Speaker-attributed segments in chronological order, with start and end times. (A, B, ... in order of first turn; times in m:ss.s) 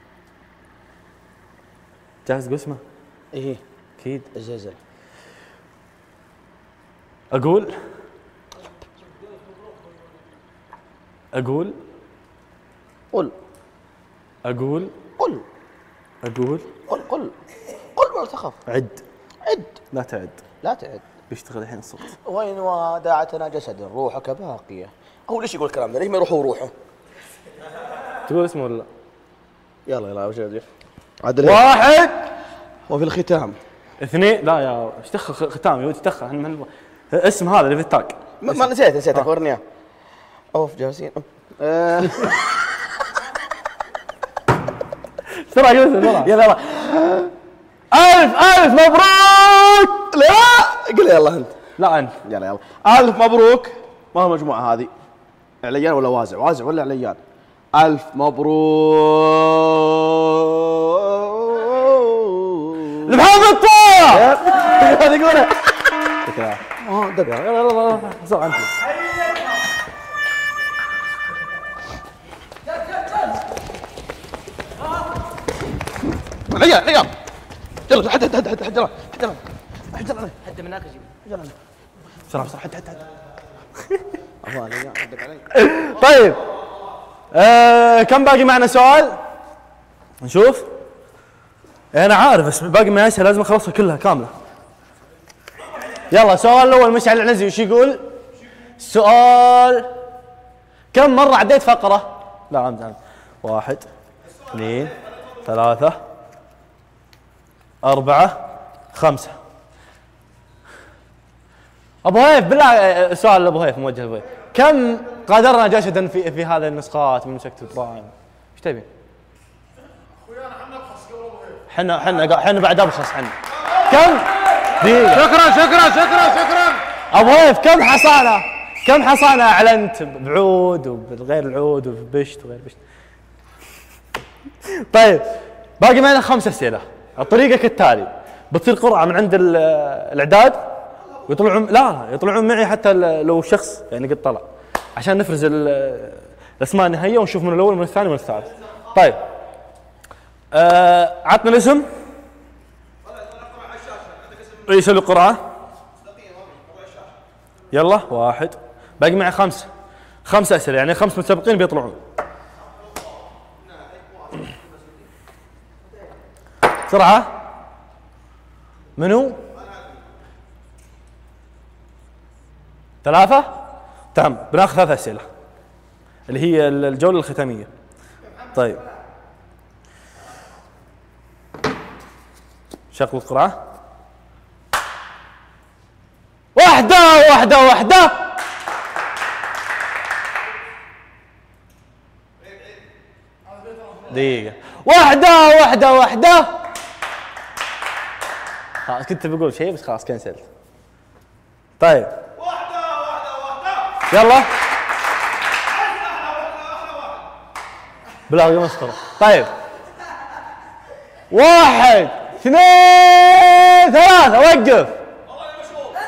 0:02.2-0:02.8 A
0:03.3-0:03.6 B
0:04.0-0:04.3 A
0:04.3-0:04.8 B
0:07.3-0:07.8 A
0:11.3-0:11.8 A
0:14.4-0:14.9 A
0:15.2-0:15.4 B
0:16.2-0:16.7 A
0:16.9-0:17.3 B
0:17.9-0:18.6 B
0:18.7-0:19.0 A
0:19.4-0:19.7 B
0:19.9-0:20.4 A
0:20.6-0:21.0 B
0:21.3-0:22.2 A
0:22.1-0:26.7 B
0:28.3-0:28.9 A
0:29.9-0:30.6 B
0:31.2-0:31.6 B
0:31.4-0:32.3 A
0:32.9-0:33.6 B
0:34.0-0:39.3 A
0:38.4-0:39.6 B
0:40.5-0:42.4 B
0:45.3-0:46.3 A
0:46.2-0:47.3 B
0:47.9-0:50.1 A
0:50.1-0:51.5 B
0:51.8-0:52.2 A
0:52.2-0:54.9 B
0:55.6-0:57.2 B
0:57.7-1:03.2 B
1:03.0-1:04.4 A
1:04.1-1:05.5 B
1:06.2-1:06.6 A
1:06.8-1:07.3 B
1:07.2-1:08.7 A
1:16.5-1:17.1 B
1:17.9-1:21.5 B
1:22.3-1:23.0 A
1:24.4-1:25.5 B
1:25.5-1:26.4 A
1:27.3-1:29.2 A
1:30.2-1:30.7 A
1:31.9-1:34.3 A
1:36.1-1:38.0 A
1:38.8-1:39.9 A
1:40.9-1:43.8 A
1:44.5-1:46.0 A
1:47.8-1:48.4 A
1:48.9-1:49.3 A
1:52.0-1:58.9 A
2:01.7-2:05.4 A
2:05.3-2:06.8 B
2:07.1-2:12.8 A
2:14.7-2:15.2 A
2:15.8-2:20.7 A
2:21.3-2:24.4 A
2:25.0-2:29.2 A
2:30.5-2:31.8 A
2:34.7-2:35.4 A
2:36.1-2:37.1 B
2:37.7-2:39.7 A
2:40.2-2:42.0 A
2:46.9-2:47.3 A
2:49.0-2:49.4 A
2:53.0-2:53.5 A
2:54.1-2:55.3 A
2:56.3-2:57.7 A
2:58.5-2:58.8 A
3:02.9-3:03.6 A
3:06.6-3:08.2 A
3:14.1-3:16.5 A
3:18.8-3:20.5 A
3:21.8-3:22.1 A
3:23.0-3:23.5 B
3:24.1-3:24.5 A
3:28.3-3:29.5 A
3:31.3-3:35.0 A